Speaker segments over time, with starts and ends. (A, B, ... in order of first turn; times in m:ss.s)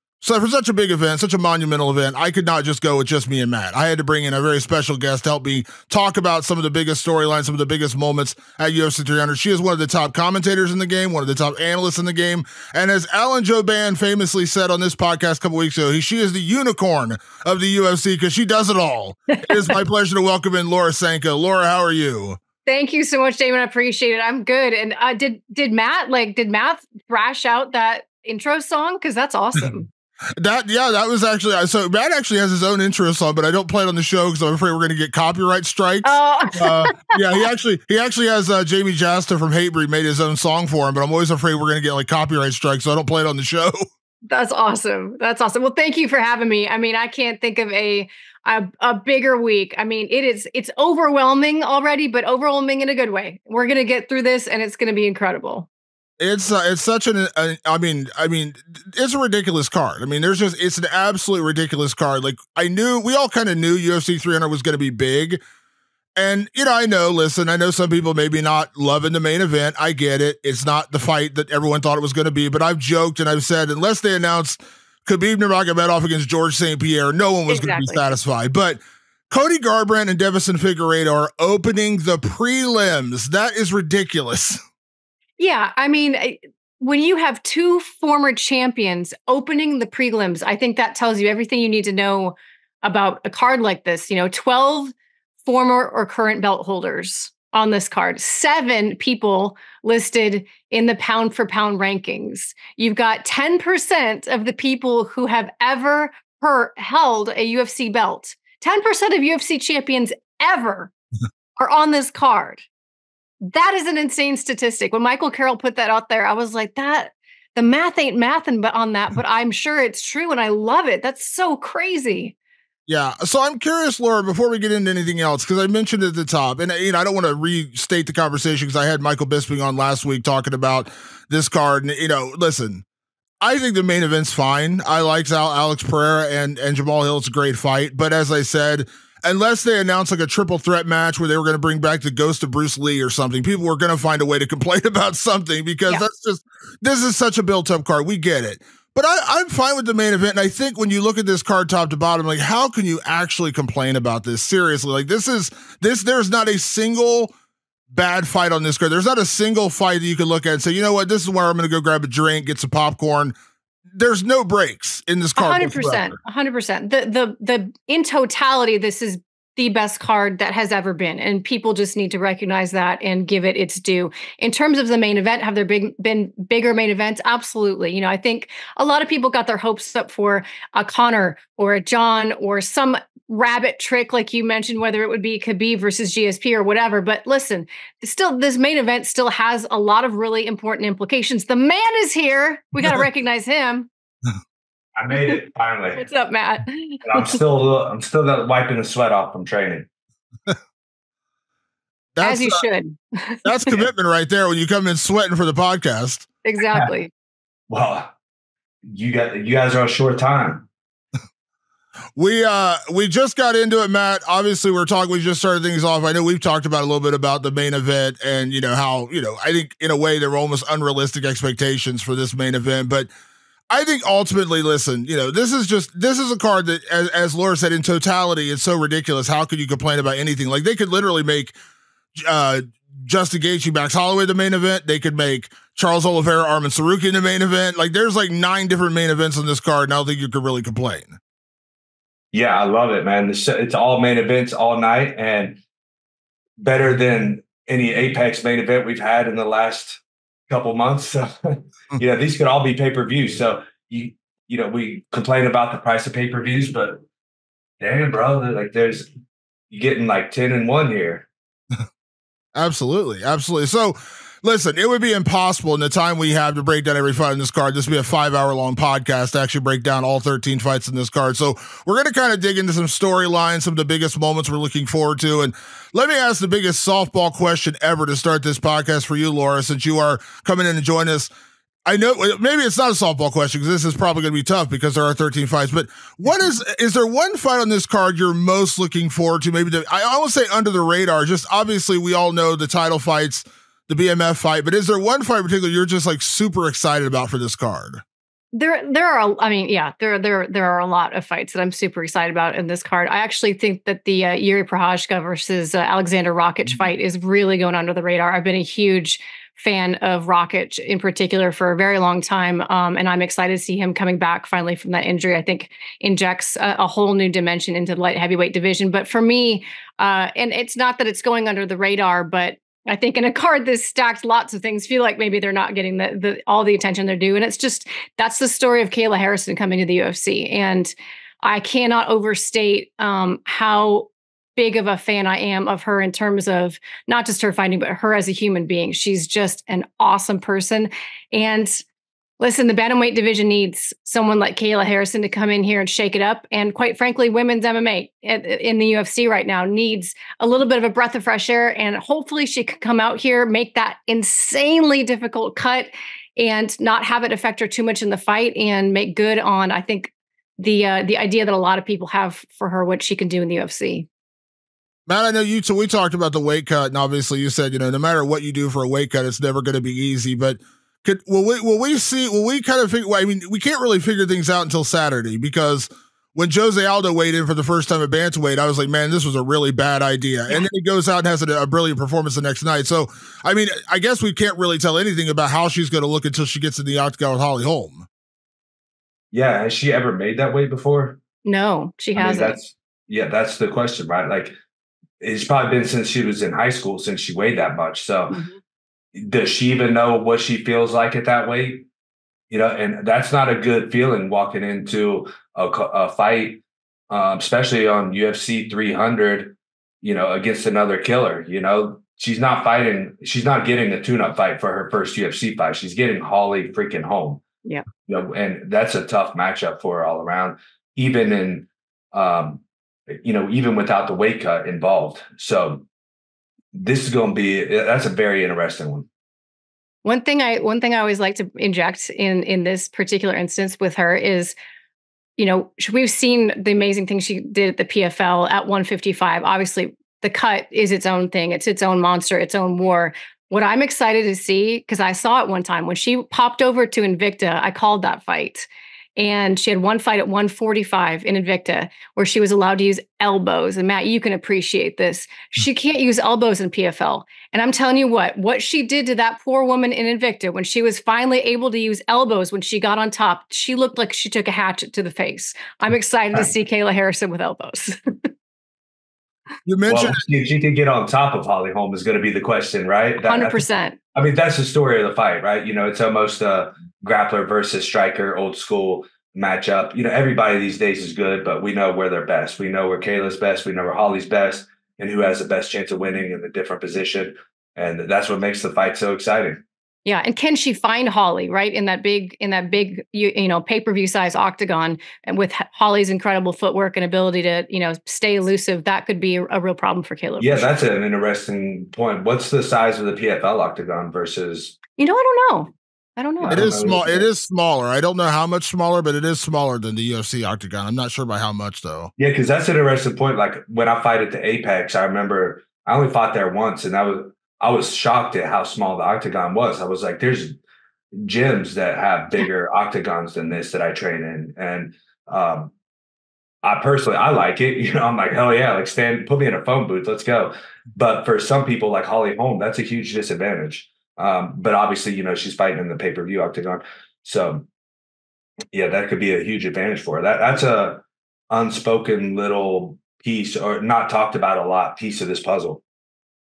0:00.2-0:22.4 A
0:22.6-0:29.9 B
0:30.4-0:43.8 A
0:36.0-0:37.1 B
0:44.3-0:55.7 B
0:56.2-1:05.4 A
1:06.2-1:24.6 A
1:17.5-1:18.1 B
1:25.4-1:34.9 B
1:35.4-1:50.9 B
1:51.6-1:52.6 B
1:53.4-2:02.3 B
2:02.9-2:12.8 A
2:13.4-2:37.3 A
2:37.9-2:43.3 A
2:43.9-2:46.1 A
2:45.4-3:13.9 B
3:15.0-3:16.0 C
3:15.9-3:17.4 B
3:17.0-3:19.9 C
3:22.1-3:22.6 A
3:22.2-3:23.8 B
3:23.4-3:26.3 A
3:26.4-3:27.1 B
3:27.7-3:28.1 C
3:28.9-3:30.7 C
3:32.2-3:43.1 A
3:43.7-3:51.5 A
3:52.2-4:01.2 A
4:02.3-4:05.6 C
4:06.6-4:17.0 C
4:17.8-4:19.1 C
4:19.7-4:21.3 C
4:22.5-4:41.3 A
4:41.8-4:58.0 A
4:58.5-5:41.8 B
5:42.4-6:04.1 B
6:05.1-6:28.1 A
6:29.3-6:31.2 C
6:31.4-6:32.6 B
6:32.2-6:34.5 C
6:35.2-6:38.4 C
6:38.3-6:38.6 B
6:39.1-6:41.8 C
6:42.5-6:57.4 C
6:58.1-7:05.8 C
7:06.7-7:09.1 C
7:10.0-7:14.6 B
7:15.4-7:48.2 B
7:49.6-7:50.2 A
7:49.9-8:09.6 C
7:53.2-7:54.0 B
8:10.0-8:20.7 B
8:20.4-8:24.8 C
8:25.0-8:26.7 B
8:26.4-8:27.3 C
8:26.5-8:32.1 A
8:32.2-8:40.6 C
8:41.1-8:45.7 C
8:46.6-8:57.6 C
8:58.7-9:05.8 C